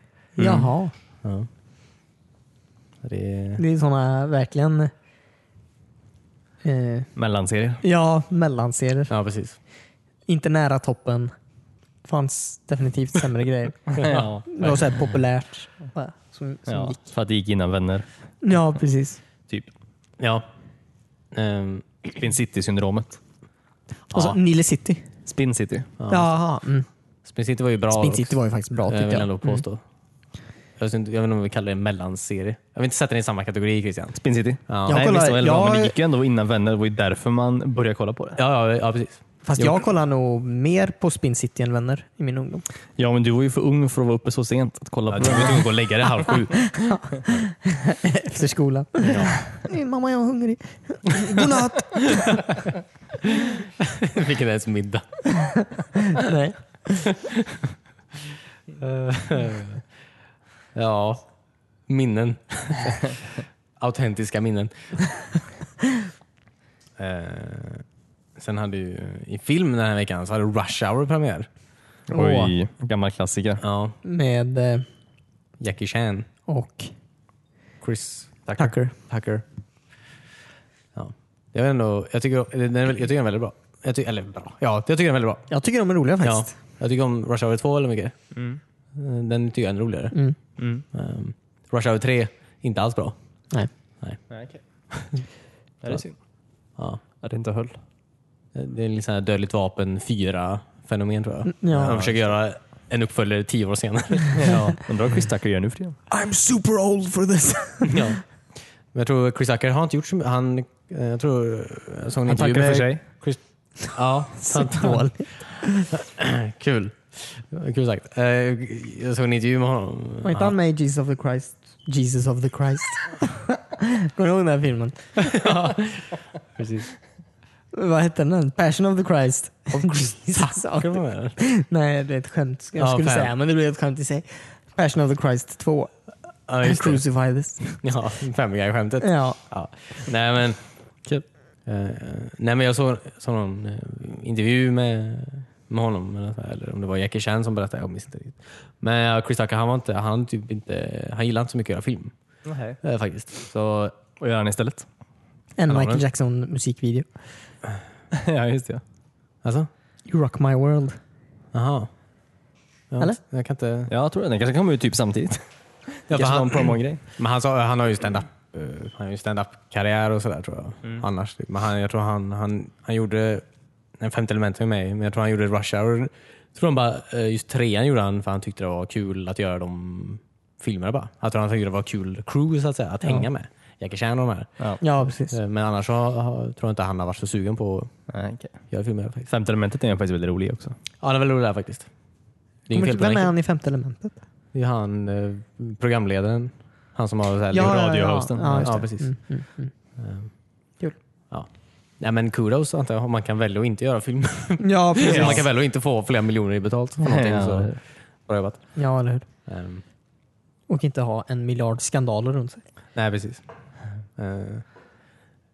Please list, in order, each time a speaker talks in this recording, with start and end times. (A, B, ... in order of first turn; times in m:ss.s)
0:00.4-0:00.9 A
0:00.4-0:00.7 B
0:01.2-0:01.5 C
0:03.0-0:03.6 C
0:03.6-0:04.9 A
0:06.6-0:07.1 A
0:07.2-0:07.8 B
0:07.8-0:09.1 A
0:09.1-0:09.6 C
0:10.3-0:11.3 A
0:12.0-0:17.0 A
0:14.0-0:14.3 C
0:14.0-0:14.5 B
0:16.7-0:18.1 B
0:18.4-0:19.2 A
0:20.2-0:20.4 C
0:21.3-0:21.9 C
0:22.2-0:23.2 B
0:24.1-0:25.1 A
0:25.3-0:25.9 B
0:26.0-0:26.3 C
0:26.1-0:26.9 A
0:27.3-0:28.4 C
0:27.9-0:29.6 A
0:28.9-0:29.8 C
0:30.8-0:35.0 C
0:34.2-0:38.4 B
0:34.9-0:36.0 A
0:38.4-0:39.8 C
0:39.4-0:42.6 A
0:43.0-0:45.7 B
0:45.1-0:46.8 C
0:46.7-0:52.4 A
0:49.1-0:49.4 C
0:52.1-0:52.6 C
0:53.4-0:55.3 C
0:55.4-0:57.1 A
0:57.1-0:57.6 C
0:58.8-0:59.8 C
1:00.8-1:01.3 C
1:01.9-1:05.0 C
1:07.0-1:07.8 C
1:08.4-1:11.5 C
1:12.1-1:13.6 B
1:12.1-1:12.5 A
1:13.6-1:14.0 C
1:14.0-1:14.9 A
1:15.6-1:16.3 C
1:16.5-1:16.9 A
1:17.8-1:19.4 C
1:18.6-1:19.0 A
1:21.0-1:25.5 C
1:25.5-1:26.5 A
1:26.2-1:28.2 C
1:28.3-1:28.6 B
1:29.0-1:30.2 C
1:30.6-1:30.8 B
1:30.9-1:33.2 C
1:34.3-1:34.6 B
1:34.9-1:35.2 C
1:35.8-1:36.2 B
1:37.2-1:37.8 B
1:38.6-1:44.5 C
1:41.5-1:41.9 A
1:41.8-1:42.2 B
1:44.4-1:46.0 B
1:46.1-1:48.1 A
1:47.9-1:48.2 C
1:48.9-2:00.5 C
1:52.3-1:53.0 B
1:54.4-1:55.9 A
2:00.2-2:05.4 A
2:05.2-2:06.9 C
2:07.7-2:15.9 A
2:09.9-2:11.4 C
2:12.8-2:13.3 C
2:16.5-2:17.0 C
2:16.6-2:17.8 A
2:17.8-2:20.6 C
2:19.0-2:19.4 A
2:21.7-2:32.1 C
2:32.4-2:32.8 B
2:32.8-2:34.0 C
2:34.2-2:34.9 B
2:35.6-2:37.1 A
2:35.7-2:36.0 C
2:38.1-2:38.8 B
2:39.4-2:39.7 C
2:40.1-2:41.0 A
2:41.5-2:41.9 C
2:42.9-2:43.9 C
2:43.9-2:47.0 B
2:46.1-2:53.4 C
2:54.0-3:04.7 C
3:04.8-3:05.4 A
3:05.3-3:07.9 C
3:08.1-3:08.6 B
3:08.7-3:09.3 C
3:09.3-3:10.8 B
3:11.0-3:11.9 C
3:12.7-3:13.3 C
3:12.7-3:14.2 A
3:14.5-3:17.8 C
3:17.5-3:19.7 A
3:17.5-3:18.8 B
3:18.6-3:19.1 C
3:20.0-3:20.3 C
3:22.0-3:28.6 C
3:24.6-3:25.4 A
3:25.0-3:25.4 B
3:27.0-3:27.8 B
3:28.8-3:29.3 A
3:29.5-3:29.8 C
3:30.7-3:32.6 A
3:33.0-3:33.4 C
3:34.2-3:34.6 C